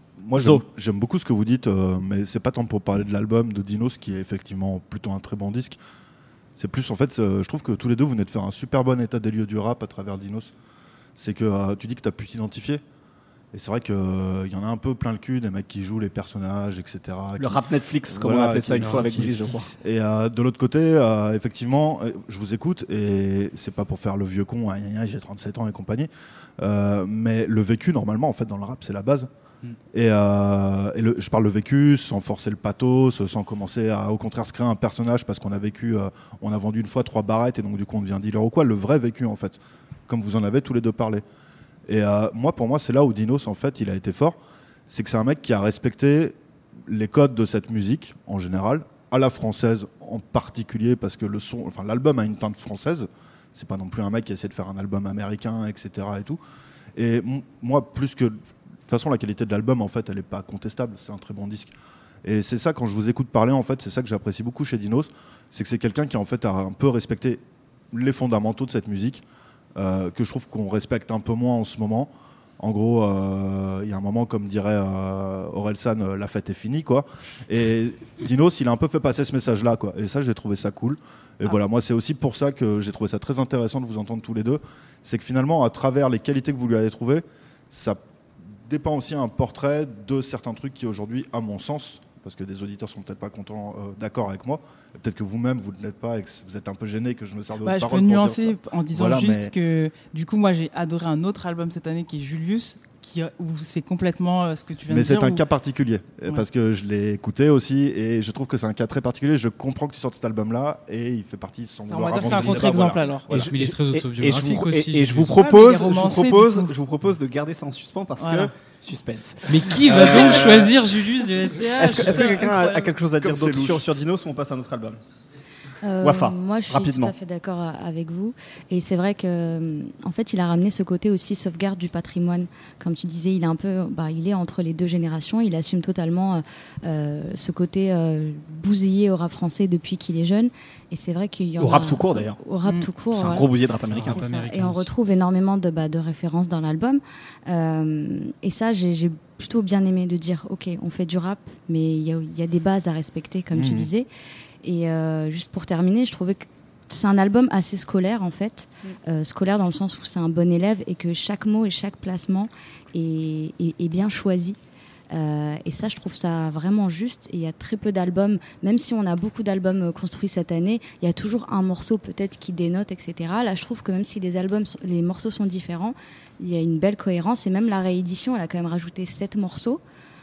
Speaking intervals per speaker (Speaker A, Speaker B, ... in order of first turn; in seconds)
Speaker A: 0.2-5.8, 6.6-10.5, 11.2-12.8, 13.5-29.3, 29.9-41.2, 41.9-44.4, 44.9-46.4, 46.9-56.4, 57.0-58.4, 58.9-67.4, 67.9-69.2, 69.8-88.0, 88.6-99.5, 104.9-113.5, 123.2-123.8, 153.5-153.9
Speaker B: 0.3-0.6, 17.4-19.6, 113.3-120.8, 121.8-125.0, 126.0-127.1, 141.6-142.4, 143.1-144.3
Speaker C: 18.8-19.8, 112.2-112.5, 113.3-115.4, 119.5-122.8, 143.9-144.9
Speaker D: 97.6-105.4, 111.9-113.3, 115.3-116.7, 118.2-118.5, 119.7-120.7, 121.8-122.5, 142.6-142.9
Speaker E: 125.8-154.1, 154.6-164.6, 165.1-179.8